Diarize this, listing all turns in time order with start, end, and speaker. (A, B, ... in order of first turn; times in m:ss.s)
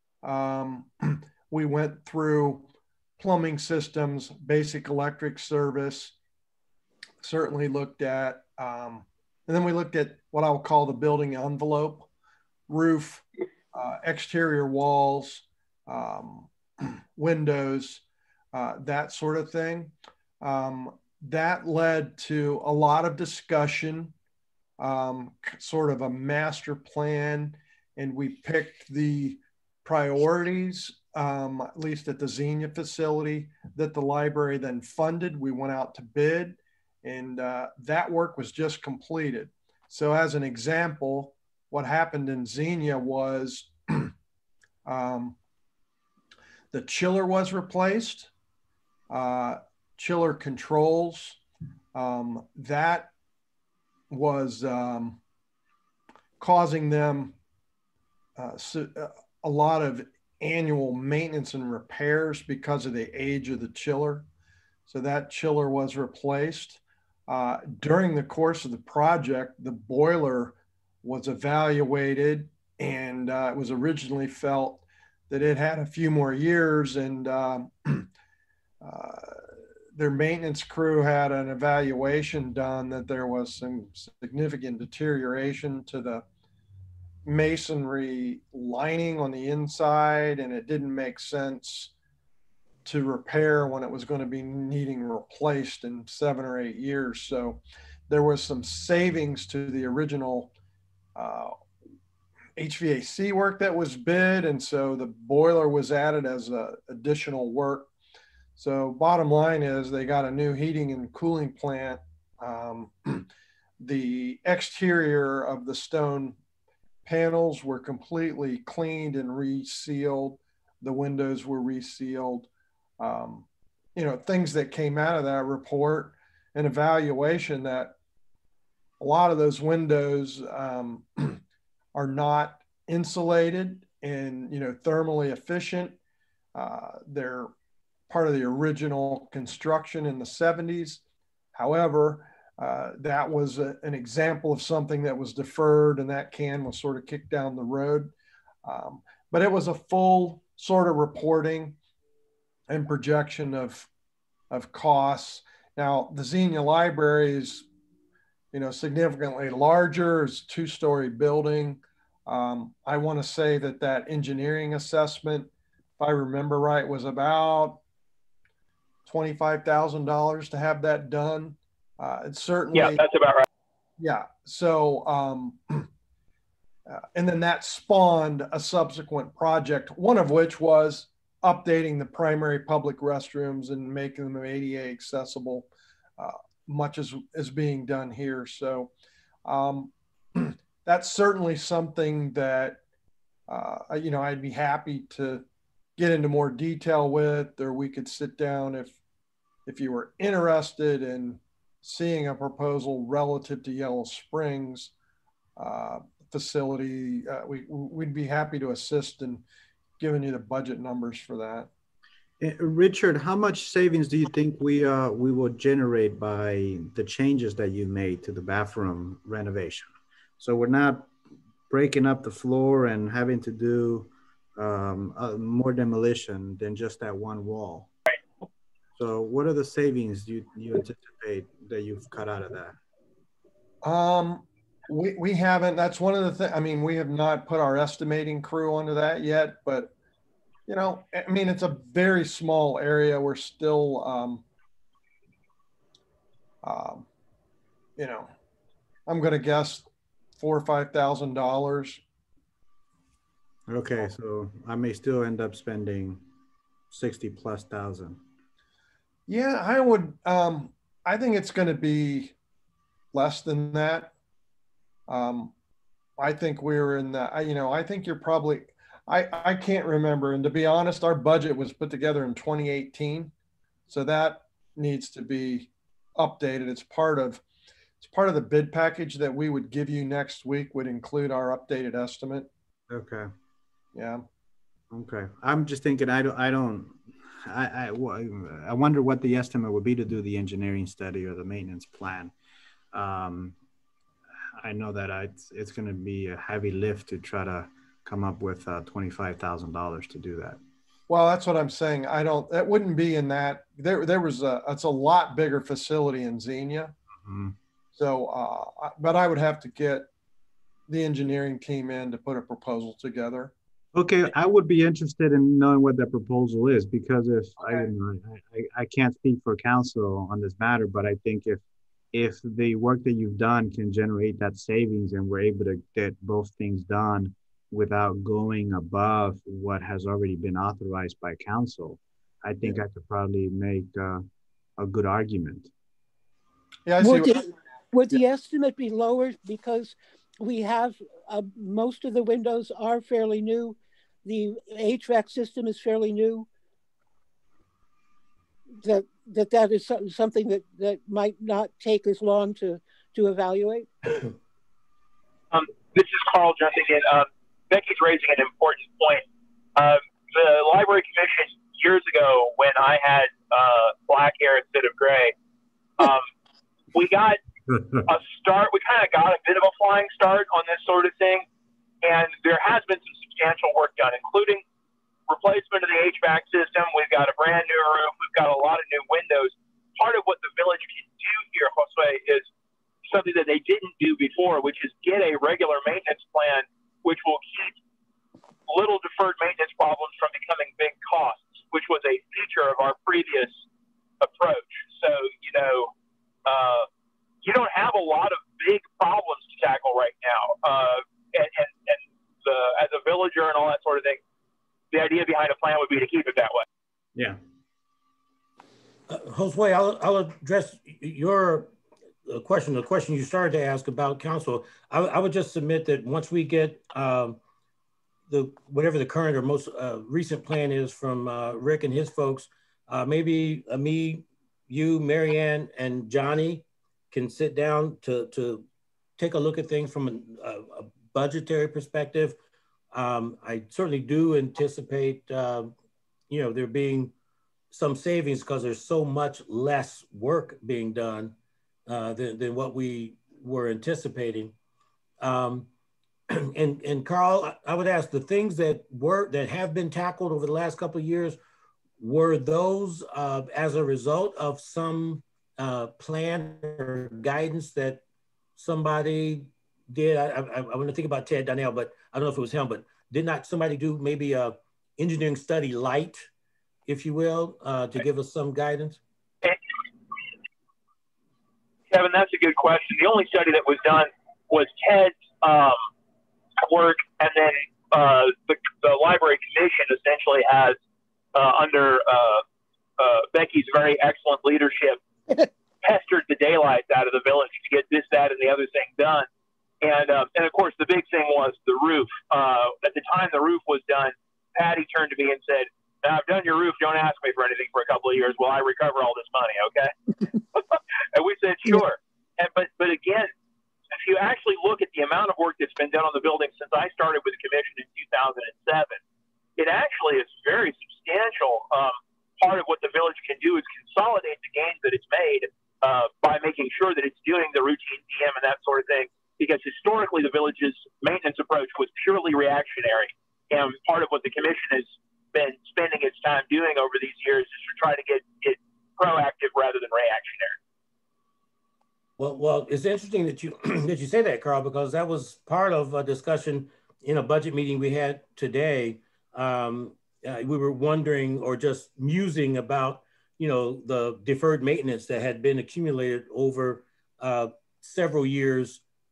0:00.2-0:06.1 A
0:07.2-0:12.1 A
0:12.7-0:24.1 A
0:24.8-0:44.1 A
0:44.8-0:45.4 A
0:46.7-0:48.3 A
0:49.1-0:51.4 A
0:51.9-0:53.1 A
0:54.1-0:55.2 A
0:56.4-0:57.4 A
0:58.4-1:04.2 A
1:04.9-1:18.1 A
1:18.8-1:19.4 A
1:19.9-1:26.2 A
1:27.2-1:31.9 A
1:32.8-1:40.5 A
1:41.1-1:41.5 A
1:42.6-1:47.9 A
1:48.6-1:53.3 A
1:53.8-1:56.4 A
1:57.0-2:07.9 A
2:09.0-2:11.4 A
2:11.9-2:16.0 A
2:16.5-2:17.5 A
2:18.1-2:21.0 A
2:21.5-2:28.1 A
2:28.6-2:31.8 A
2:32.7-2:33.9 A
2:34.5-2:37.6 A
2:38.5-2:47.8 A
2:49.0-2:53.0 A
2:52.7-2:53.4 B
2:54.0-2:55.9 A
2:56.9-3:08.9 A
3:09.4-3:12.8 A
3:13.5-3:15.4 A
3:16.0-3:19.0 A
3:19.6-3:24.9 A
3:25.6-3:29.4 A
3:30.0-3:31.7 A
3:32.4-3:41.1 C
3:41.7-3:47.9 C
3:49.0-3:52.8 C
3:53.8-3:59.9 A
4:00.7-4:04.4 A
4:06.6-4:07.1 A
4:08.0-4:08.3 A
4:09.1-4:09.9 A
4:10.4-4:12.0 A
4:13.7-4:16.2 C
4:16.9-4:18.2 C
4:19.3-4:22.3 A
4:23.1-4:24.1 A
4:25.1-4:25.5 A
4:26.2-4:33.3 A
4:33.9-4:37.4 A
4:38.0-4:42.5 A
4:42.9-4:43.3 C
4:43.9-4:44.2 A
4:44.9-4:52.3 C
4:52.9-4:53.5 C
4:54.6-5:00.6 C
5:01.1-5:06.9 A
5:07.2-5:07.6 C
5:08.0-5:10.1 A
5:10.9-5:13.5 A
5:13.9-5:21.6 C
5:22.1-5:34.2 C
5:34.8-5:35.7 C
5:36.8-5:37.4 A
5:37.0-5:46.5 D
5:48.8-5:54.2 D
5:55.5-5:59.2 B
5:59.8-6:05.3 B
6:06.0-6:06.3 B
6:06.9-6:07.4 B
6:07.9-6:11.4 B
6:12.0-6:14.6 B
6:15.3-6:22.5 B
6:23.1-6:27.8 B
6:28.7-6:33.6 B
6:34.2-6:35.9 B
6:36.4-6:36.9 B
6:37.4-6:44.2 B
6:44.9-6:46.6 B
6:49.1-6:51.7 E
6:52.3-6:57.4 E
6:58.3-7:08.6 E
7:09.2-7:12.4 E
7:12.9-7:15.7 E
7:16.3-7:17.1 E
7:17.7-7:21.4 E
7:21.9-7:24.5 E
7:25.2-7:25.7 E
7:26.3-7:31.4 E
7:32.0-7:38.0 E
7:38.6-7:46.3 E
7:46.9-7:49.0 E
7:51.9-7:55.8 B
7:56.6-8:00.8 B
8:01.3-8:02.4 B
8:03.0-8:05.0 B
8:05.8-8:09.2 B
8:09.8-8:19.9 B
8:20.5-8:23.3 B
8:23.9-8:29.0 B
8:29.6-8:50.6 B
8:52.2-9:08.8 E